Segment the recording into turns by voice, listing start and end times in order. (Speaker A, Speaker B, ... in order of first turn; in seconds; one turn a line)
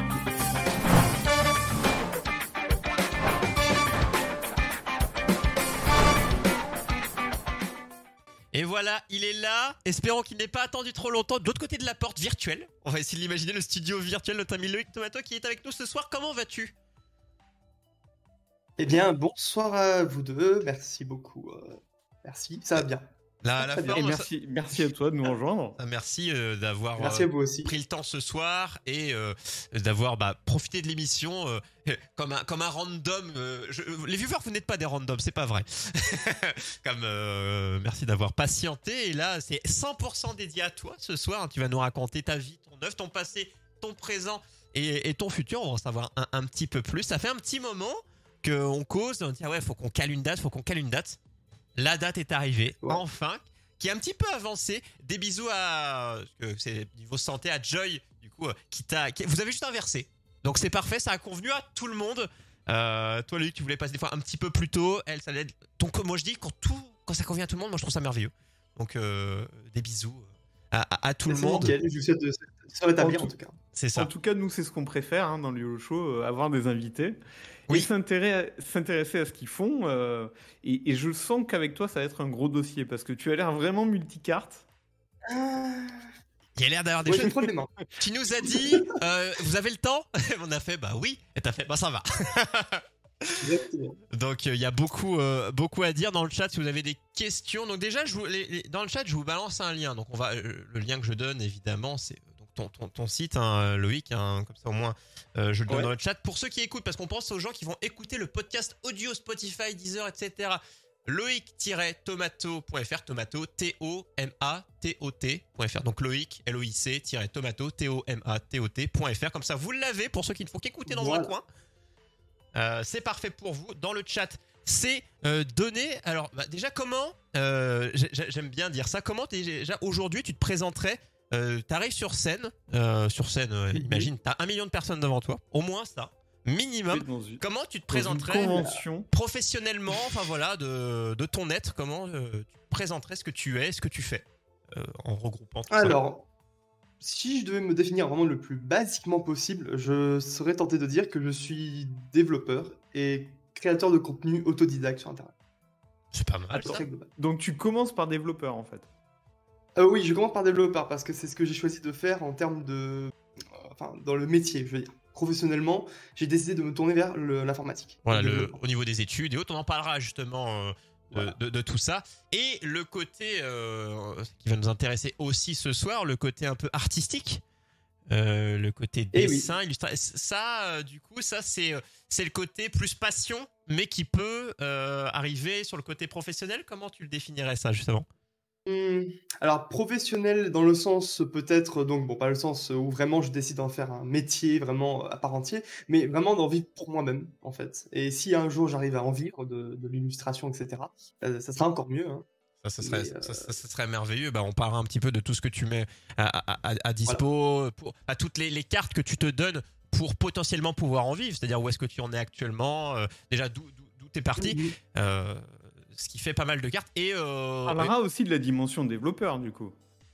Speaker A: 8.5-16.7
Speaker B: 18.8-23.1
Speaker A: 23.4-24.3
Speaker B: 23.6-24.1
Speaker C: 23.9-25.8
Speaker A: 25.8-51.2
Speaker B: 27.0-27.7
Speaker A: 51.8-71.7
Speaker B: 71.3-73.6
Speaker C: 73.0-73.3
Speaker A: 73.7-74.1
Speaker C: 73.9-84.6
Speaker B: 85.3-86.1
Speaker A: 86.6-93.4
Speaker B: 87.1-87.7
Speaker B: 88.4-88.8
Speaker B: 93.4-94.0
Speaker A: 94.1-121.4
Speaker B: 120.9-121.3
Speaker A: 122.5-146.0
Speaker B: 133.7-134.1
Speaker C: 136.9-139.1
Speaker B: 145.7-146.2
Speaker B: 147.0-155.3
Speaker A: 156.1-156.8
Speaker B: 156.5-157.1
Speaker C: 156.6-158.9
Speaker B: 159.8-168.6
Speaker A: 168.1-177.4
Speaker A: 178.1-188.1
Speaker B: 179.1-179.5
Speaker B: 188.7-202.2
Speaker A: 202.6-217.9
Speaker B: 202.8-203.5
Speaker B: 214.4-214.8
Speaker C: 217.7-219.8